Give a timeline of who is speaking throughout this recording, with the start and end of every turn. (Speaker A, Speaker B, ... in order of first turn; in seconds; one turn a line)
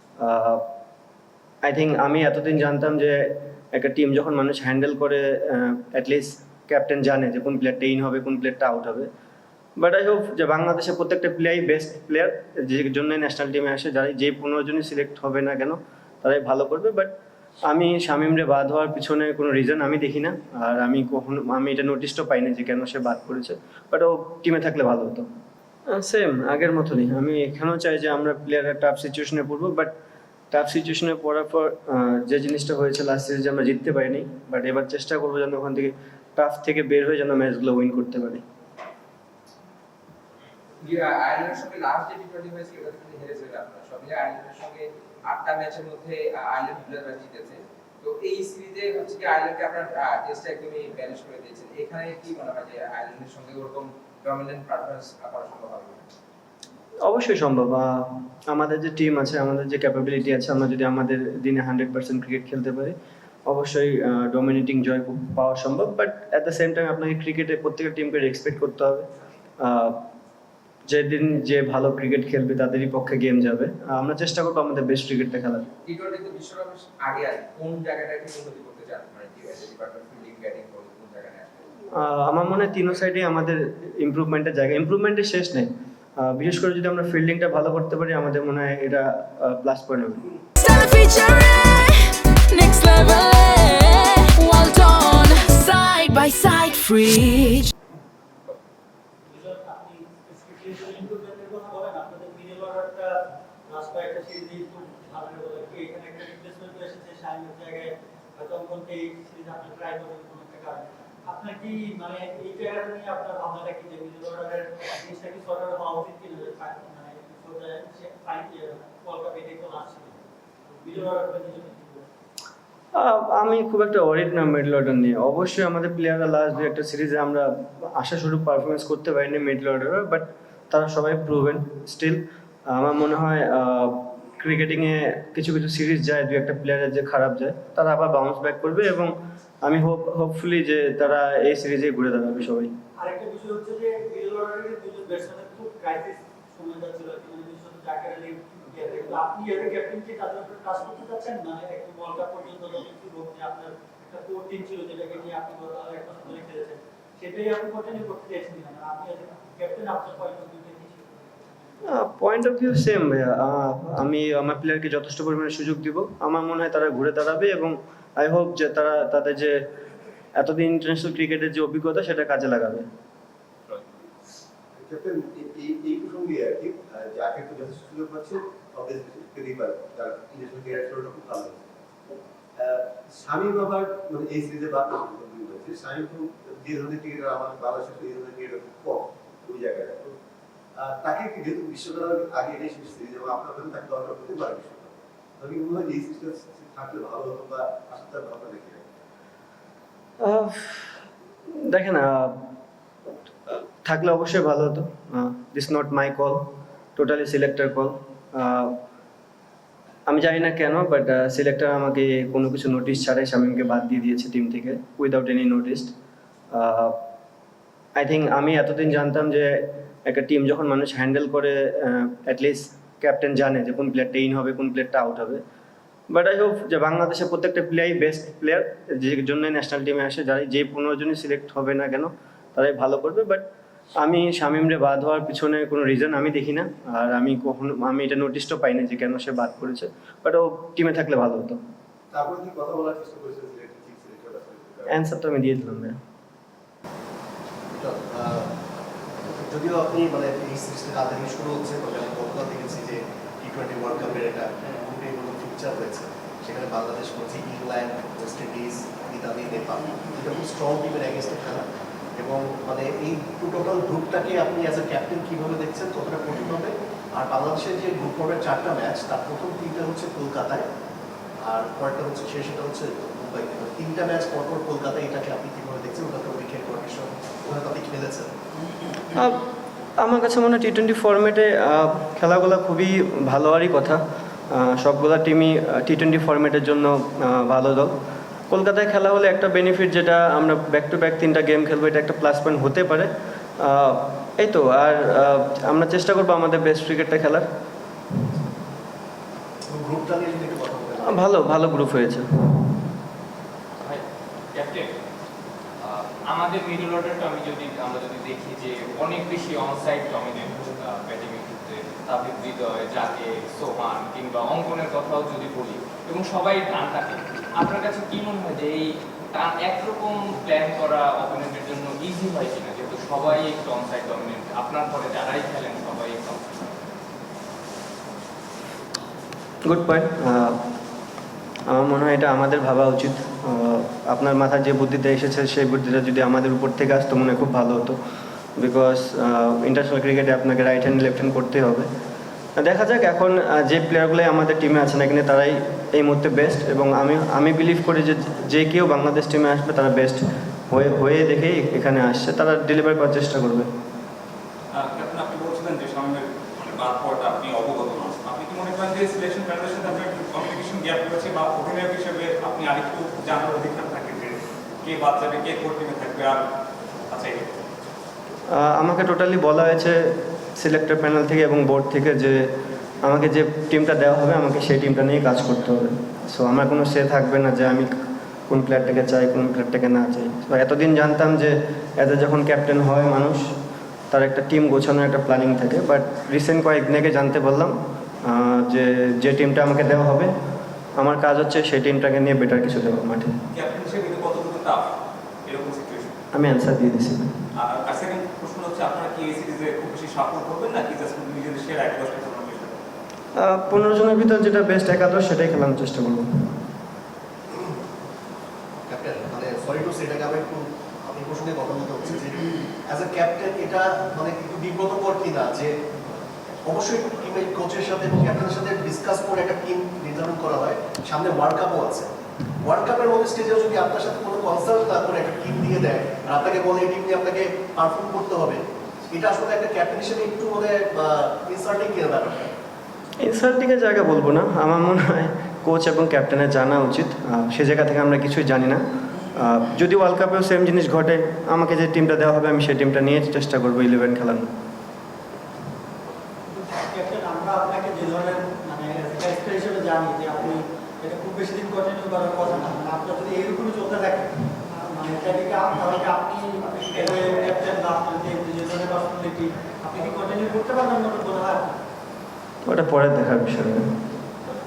Speaker A: 0.2-0.7
Speaker A: 1.6-9.1
Speaker A: 9.8-25.3
Speaker A: 25.9-29.9
Speaker A: 30.5-38.4
Speaker B: 40.9-56.0
Speaker A: 57.0-62.9
Speaker A: 63.5-69.1
Speaker A: 69.6-70.1
Speaker A: 70.9-75.7
Speaker B: 75.8-81.5
Speaker A: 81.9-90.3
Speaker C: 90.6-97.7
Speaker D: 99.3-120.2
Speaker D: 120.7-122.0
Speaker A: 122.9-142.7
Speaker D: 143.0-161.6
Speaker A: 161.8-169.6
Speaker A: 170.3-172.9
Speaker E: 174.7-181.7
Speaker E: 182.6-190.2
Speaker E: 190.7-198.8
Speaker A: 200.2-201.0
Speaker A: 201.5-202.5
Speaker A: 203.5-208.8
Speaker A: 210.1-215.9
Speaker A: 216.5-217.0
Speaker A: 217.9-225.4
Speaker A: 226.1-241.6
Speaker E: 242.1-244.9
Speaker A: 244.9-246.0
Speaker F: 247.7-248.5
Speaker F: 249.2-270.7
Speaker F: 271.4-278.3
Speaker A: 279.1-279.4
Speaker A: 280.0-287.9
Speaker A: 288.5-297.5
Speaker F: 299.6-301.3
Speaker A: 301.0-302.7
Speaker G: 303.8-304.9
Speaker G: 305.8-326.8
Speaker A: 329.6-330.6
Speaker A: 331.7-338.0
Speaker A: 338.6-341.9
Speaker A: 342.6-353.7
Speaker H: 354.7-366.5
Speaker H: 367.1-367.6
Speaker A: 368.5-372.5
Speaker A: 373.0-377.9
Speaker A: 378.5-383.5
Speaker A: 384.1-390.3
Speaker A: 391.0-393.3
Speaker H: 393.5-394.9
Speaker H: 395.4-396.1
Speaker A: 396.3-397.3
Speaker H: 397.5-402.8
Speaker A: 403.4-406.5
Speaker F: 408.9-415.8
Speaker F: 416.6-432.5
Speaker A: 433.2-444.5
Speaker D: 446.5-461.8
Speaker A: 462.6-463.9